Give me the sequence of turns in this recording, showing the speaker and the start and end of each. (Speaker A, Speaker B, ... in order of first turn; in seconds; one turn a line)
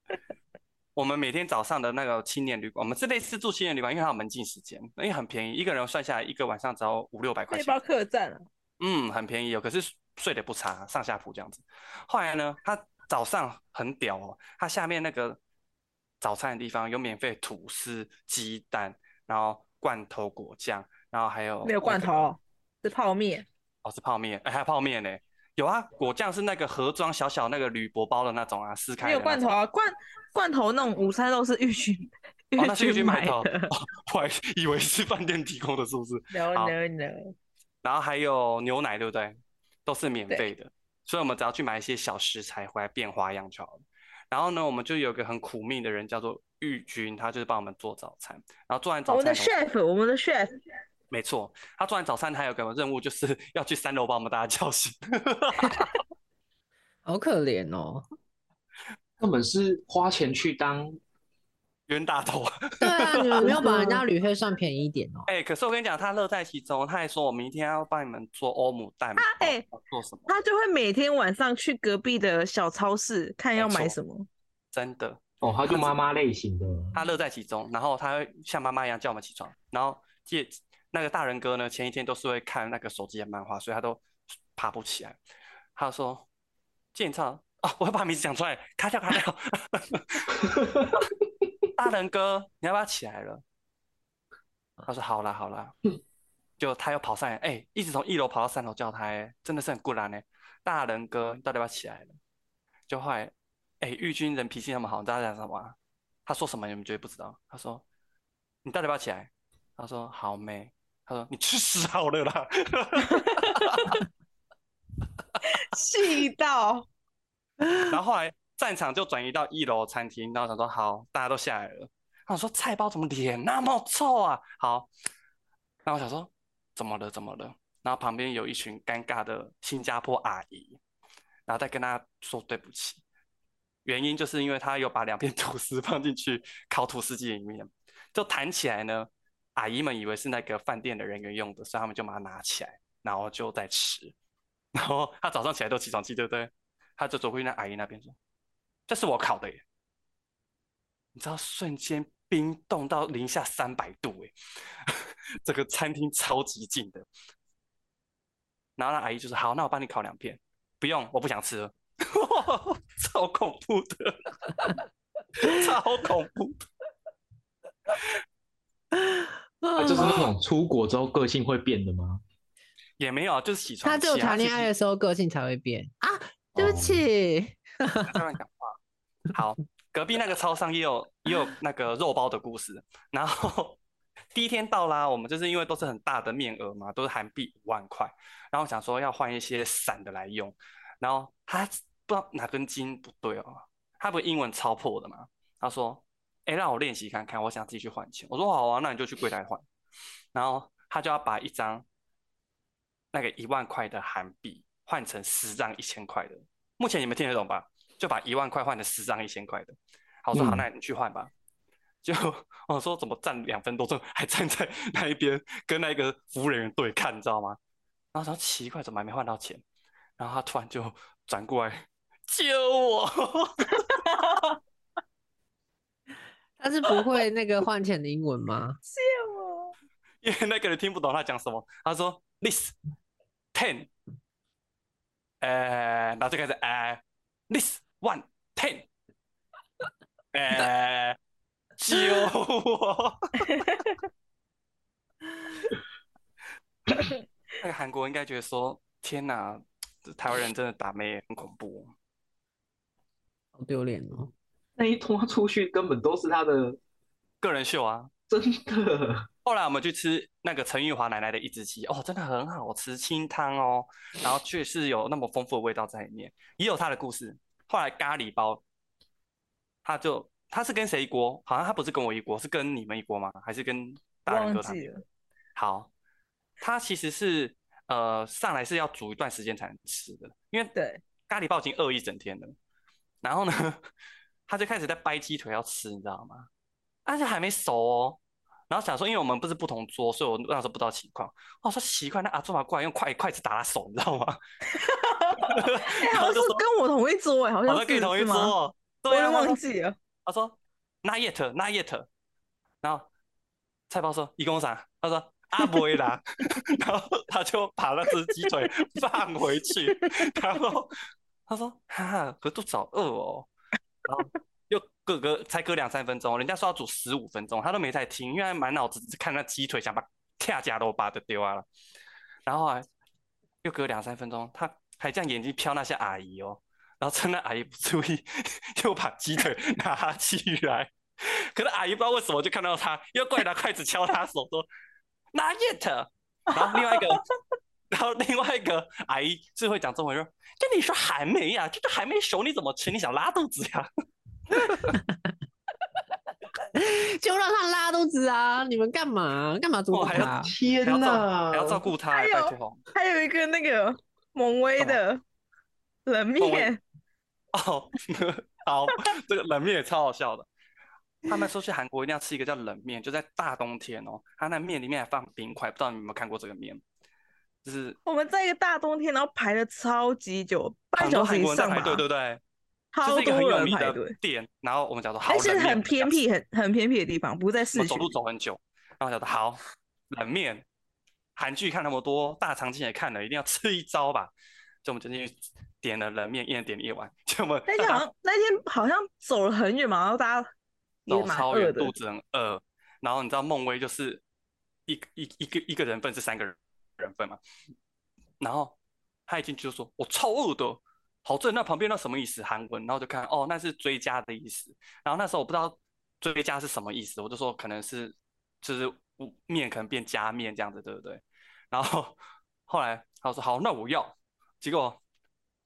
Speaker A: 0.9-7.8
Speaker B: 7.5-8.4
Speaker A: 8.8-15.4
Speaker A: 16.2-22.3
Speaker B: 21.6-23.4
Speaker A: 23.8-29.5
Speaker B: 29.0-33.7
Speaker A: 32.6-36.7
Speaker B: 36.3-37.3
Speaker A: 37.8-49.5
Speaker B: 49.1-50.5
Speaker A: 51.1-55.9
Speaker C: 57.0-58.0
Speaker D: 59.2-61.0
Speaker A: 61.9-63.6
Speaker C: 62.8-65.3
Speaker B: 63.4-64.0
Speaker A: 65.3-70.3
Speaker B: 69.2-69.6
Speaker B: 70.3-74.3
Speaker A: 73.5-73.9
Speaker A: 74.7-75.9
Speaker D: 75.4-77.0
Speaker A: 76.9-84.0
Speaker A: 84.5-85.2
Speaker A: 85.8-86.2
Speaker A: 86.9-90.5
Speaker A: 91.7-93.4
Speaker A: 94.8-95.7
Speaker A: 96.6-102.1
Speaker A: 102.9-105.7
Speaker A: 106.2-107.8
Speaker A: 108.6-114.0
Speaker B: 113.0-113.9
Speaker B: 115.4-116.8
Speaker A: 117.8-124.9
Speaker A: 125.8-130.8
Speaker A: 131.5-133.0
Speaker A: 133.8-144.1
Speaker A: 144.7-148.2
Speaker A: 148.9-149.6
Speaker A: 151.1-157.1
Speaker A: 158.8-164.7
Speaker A: 165.3-166.6
Speaker C: 168.9-170.3
Speaker D: 169.8-172.2
Speaker A: 169.9-170.3
Speaker A: 173.0-174.7
Speaker C: 173.8-178.2
Speaker D: 176.6-177.0
Speaker A: 178.1-178.8
Speaker A: 179.3-183.8
Speaker A: 184.3-199.6
Speaker A: 200.3-201.8
Speaker A: 203.1-211.3
Speaker D: 210.3-210.6
Speaker A: 212.0-217.6
Speaker A: 218.1-219.6
Speaker A: 220.2-224.4
Speaker B: 223.8-224.3
Speaker C: 226.6-228.8
Speaker B: 228.9-229.7
Speaker A: 230.2-232.7
Speaker A: 233.5-233.9
Speaker A: 235.4-238.9
Speaker A: 240.3-241.2
Speaker A: 241.8-243.7
Speaker B: 243.5-243.8
Speaker A: 247.6-251.9
Speaker C: 253.6-254.3
Speaker D: 254.8-256.8
Speaker A: 257.4-258.1
Speaker D: 258.3-259.3
Speaker A: 259.4-268.6
Speaker A: 269.8-274.9
Speaker B: 274.3-275.0
Speaker A: 275.6-275.9
Speaker A: 276.6-280.7
Speaker B: 280.7-281.0
Speaker A: 281.3-282.5
Speaker A: 283.2-283.9
Speaker A: 284.5-286.5
Speaker A: 287.1-288.2
Speaker A: 288.7-294.4
Speaker B: 294.7-298.5
Speaker A: 295.4-296.6
Speaker A: 297.6-299.6
Speaker B: 299.1-299.9
Speaker A: 300.2-302.1
Speaker A: 302.8-303.1
Speaker A: 303.9-310.9
Speaker A: 311.5-313.5
Speaker A: 314.0-321.7
Speaker A: 322.4-322.9
Speaker A: 323.6-334.6
Speaker A: 335.3-337.2
Speaker B: 336.5-337.1
Speaker A: 337.9-343.9
Speaker A: 344.5-344.9
Speaker C: 344.7-345.1
Speaker C: 346.7-350.5
Speaker A: 349.9-352.8
Speaker D: 350.1-351.8
Speaker B: 352.1-355.2
Speaker B: 356.1-356.8
Speaker A: 356.4-356.7
Speaker A: 357.5-360.4
Speaker A: 361.2-366.8
Speaker A: 367.6-368.0
Speaker B: 368.1-372.0
Speaker A: 371.0-372.4
Speaker B: 372.9-374.1
Speaker A: 373.0-376.1
Speaker B: 375.2-378.1
Speaker A: 377.7-380.6
Speaker A: 381.4-384.3
Speaker A: 384.8-388.0
Speaker B: 387.7-390.5
Speaker B: 391.1-391.9
Speaker A: 391.1-394.2
Speaker A: 394.9-397.4
Speaker A: 398.4-398.7
Speaker A: 399.3-415.0